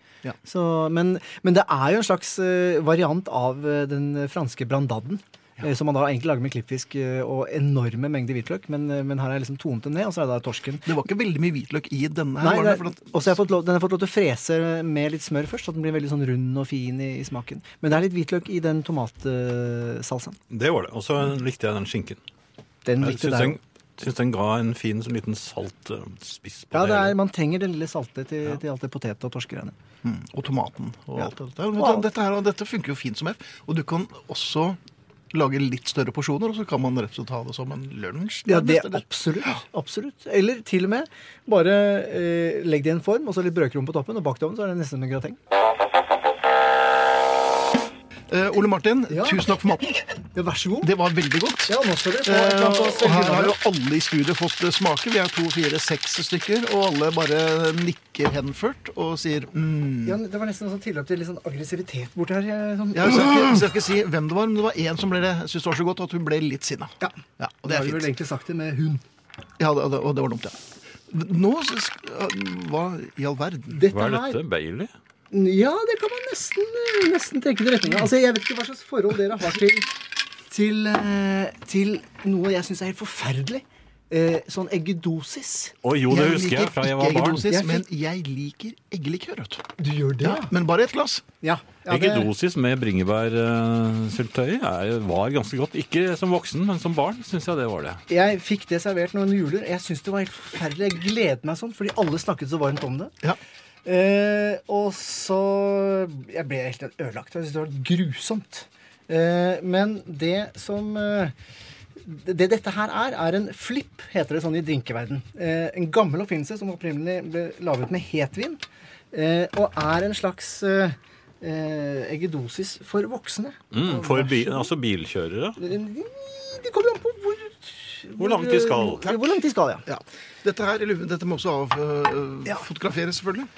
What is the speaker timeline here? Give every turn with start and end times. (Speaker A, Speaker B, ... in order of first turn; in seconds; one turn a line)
Speaker A: 0.4-10.9
Speaker B: 10.8-13.4
Speaker A: 12.4-20.4
Speaker C: 20.5-22.2
Speaker A: 22.8-23.6
Speaker C: 23.0-27.1
Speaker A: 26.7-29.7
Speaker B: 30.0-34.8
Speaker A: 31.2-32.0
Speaker B: 35.3-39.0
Speaker A: 38.5-45.4
Speaker B: 48.3-50.0
Speaker A: 49.1-49.5
Speaker A: 50.3-50.9
Speaker B: 50.8-60.2
Speaker A: 51.7-53.6
Speaker A: 60.0-63.6
Speaker B: 62.9-68.1
Speaker A: 67.0-69.0
Speaker B: 69.6-70.6
Speaker B: 71.1-73.8
Speaker A: 73.7-74.4
Speaker C: 73.9-74.9
Speaker A: 75.3-79.9
Speaker A: 80.5-85.7
Speaker C: 85.8-87.5
Speaker B: 86.1-91.2
Speaker A: 87.5-87.8
Speaker A: 89.8-90.5
Speaker A: 91.4-92.3
Speaker C: 91.9-98.0
Speaker A: 98.1-103.1
Speaker A: 103.8-111.3
Speaker A: 112.0-124.7
Speaker C: 123.7-125.6
Speaker A: 125.6-129.8
Speaker C: 128.2-129.2
Speaker B: 129.9-133.5